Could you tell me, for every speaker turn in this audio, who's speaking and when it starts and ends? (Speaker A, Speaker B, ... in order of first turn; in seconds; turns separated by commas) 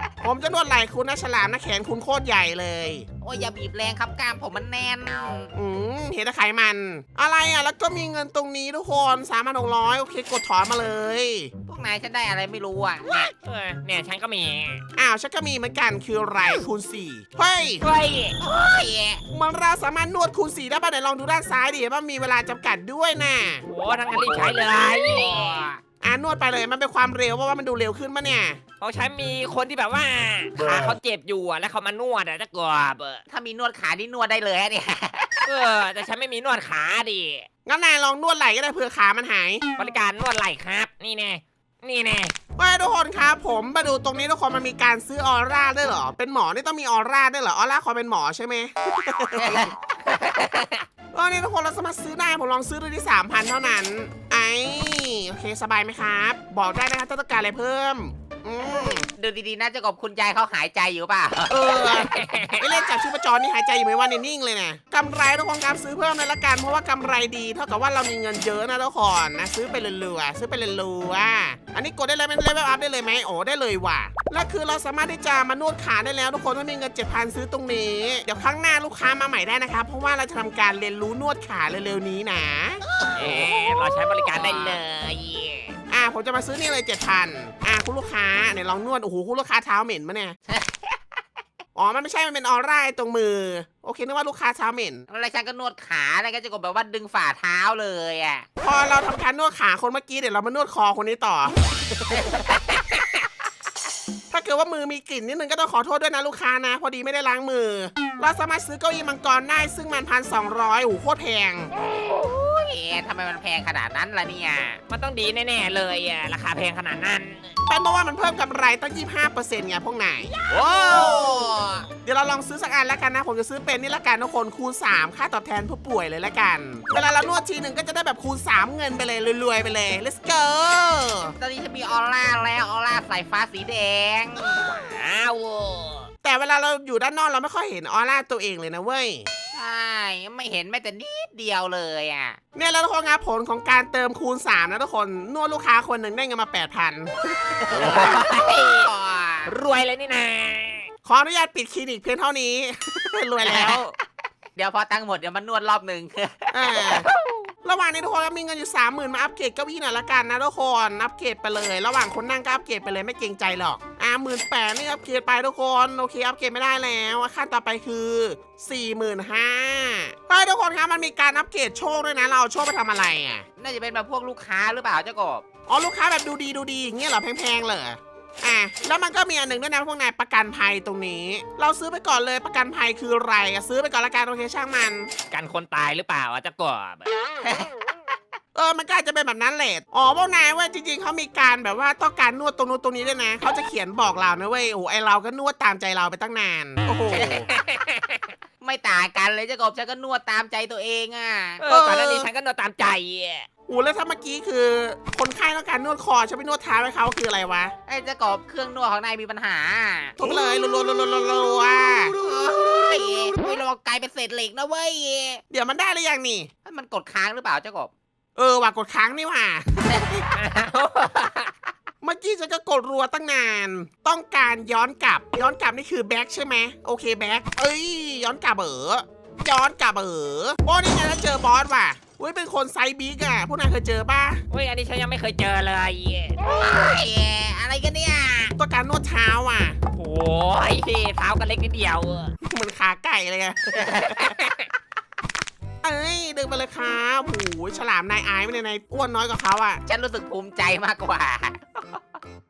Speaker A: 0.2-3.1, Speaker B: 3.2-5.5, Speaker A: 5.5-11.5, Speaker B: 11.7-13.3, Speaker C: 13.3-14.8, Speaker A: 15.0-17.8, Speaker C: 17.8-18.4, Speaker B: 18.4-19.2, Speaker A: 19.3-23.6, Speaker C: 23.7-25.7, Speaker B: 25.1-25.8, Speaker A: 26.0-28.6, Speaker C: 28.8-33.2, Speaker B: 33.3-35.5, Speaker C: 35.5-37.5, Speaker A: 37.6-39.6, Speaker C: 39.8-42.3, Speaker A: 42.6-49.7, Speaker B: 49.4-50.9, Speaker A: 51.1-59.1, Speaker B: 59.0-61.9, Speaker A: 61.5-82.8, Speaker C: 61.8-62.7, Speaker C: 83.2-85.8, Speaker A: 85.9-90.4, Speaker B: 90.5-91.0, Speaker A: 91.8-95.0, Speaker B: 95.1-98.5, Speaker A: 98.6-101.6, Speaker B: 102.1-102.9, Speaker A: 104.3-111.7, Speaker B: 111.8-114.8, Speaker C: 114.9-117.5, Speaker A: 117.7-121.3, Speaker C: 120.5-121.3, Speaker B: 120.5-121.9, Speaker A: 122.0-131.3, Speaker B: 131.4-134.7, Speaker C: 134.7-136.1, Speaker A: 136.2-139.3, Speaker B: 139.5-142.4, Speaker A: 142.6-148.1, Speaker B: 147.7-149.5, Speaker C: 147.7-148.9, Speaker C: 149.5-150.9, Speaker A: 151.1-153.9, Speaker B: 153.4-153.8, Speaker B: 154.6-157.2, Speaker A: 156.5-157.1, Speaker A: 157.6-173.4, Speaker B: 173.6-175.4, Speaker A: 175.7-185.1, Speaker C: 185.3-187.1, Speaker B: 187.4-187.7, Speaker A: 188.6-197.5, Speaker B: 197.1-197.5, Speaker C: 197.6-198.2, Speaker B: 198.6-201.6, Speaker C: 201.6-203.5, Speaker A: 201.7-202.3, Speaker A: 203.7-207.7, Speaker B: 207.9-210.2, Speaker A: 210.2-212.2, Speaker B: 212.1-215.4, Speaker A: 215.5-216.5, Speaker B: 216.7-217.9, Speaker A: 218.4-220.2, Speaker C: 220.3-221.5, Speaker A: 222.0-234.4, Speaker C: 234.5-236.4, Speaker B: 236.4-238.6, Speaker A: 238.6-239.8, Speaker C: 239.9-242.3, Speaker A: 242.4-244.2, Speaker B: 243.7-244.2, Speaker C: 244.2-244.7, Speaker A: 245.8-249.8, Speaker B: 249.9-252.2